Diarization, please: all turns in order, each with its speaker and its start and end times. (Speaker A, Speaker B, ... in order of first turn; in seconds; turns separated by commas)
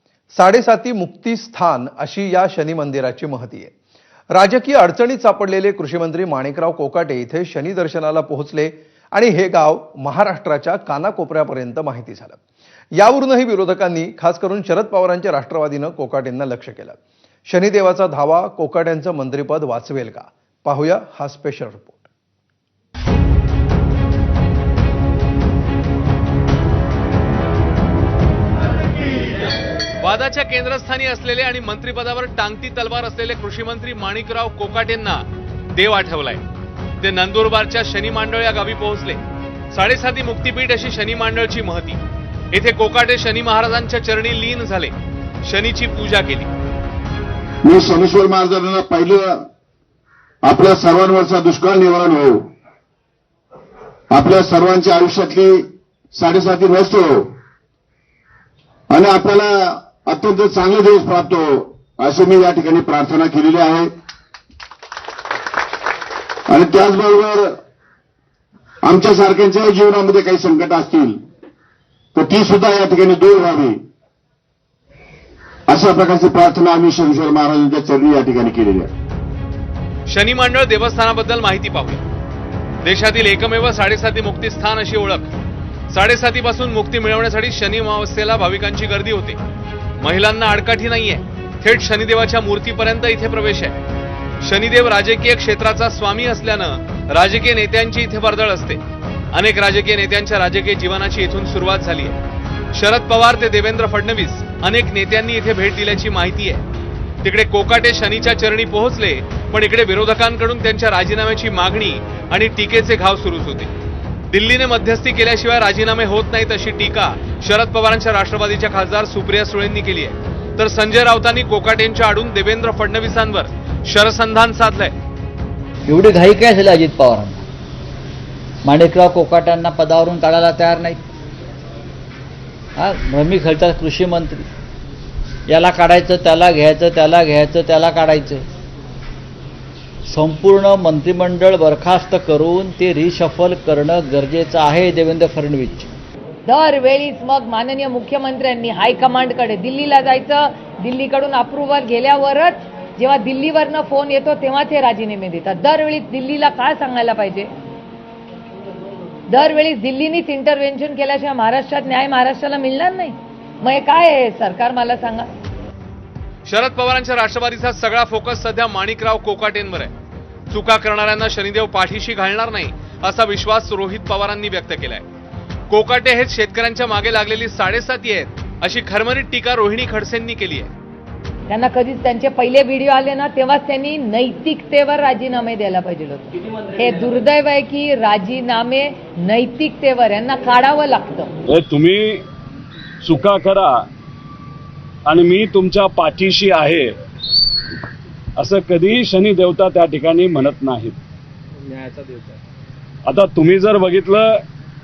Speaker A: 0.3-3.7, Speaker A: 4.3-12.4, Speaker A: 13.0-22.1, Speaker B: 30.0-35.2, Speaker B: 35.7-36.4, Speaker B: 37.0-39.2, Speaker B: 39.7-42.0, Speaker B: 42.5-44.9, Speaker B: 45.4-46.5, Speaker C: 47.6-49.5, Speaker C: 50.4-52.5, Speaker C: 54.1-57.3, Speaker C: 58.9-63.9, Speaker C: 66.5-67.6, Speaker C: 68.8-71.2, Speaker C: 72.1-73.8, Speaker C: 75.7-78.9, Speaker B: 80.1-82.0, Speaker B: 82.8-85.3, Speaker B: 85.9-89.4, Speaker B: 90.0-93.8, Speaker B: 94.4-98.8, Speaker B: 99.3-102.2, Speaker B: 102.7-106.6, Speaker B: 107.2-113.7, Speaker B: 114.3-124.9, Speaker D: 125.8-127.4, Speaker D: 128.6-131.0, Speaker D: 132.8-134.5, Speaker D: 135.5-138.4, Speaker D: 140.1-145.9, Speaker E: 146.5-157.5, Speaker E: 159.3-165.3, Speaker B: 166.4-169.9, Speaker B: 170.5-175.0, Speaker B: 175.7-180.7, Speaker E: 181.5-191.3, Speaker F: 191.5-192.2, Speaker F: 193.0-193.8, Speaker F: 195.1-196.9, Speaker F: 198.4-200.9, Speaker F: 203.1-204.4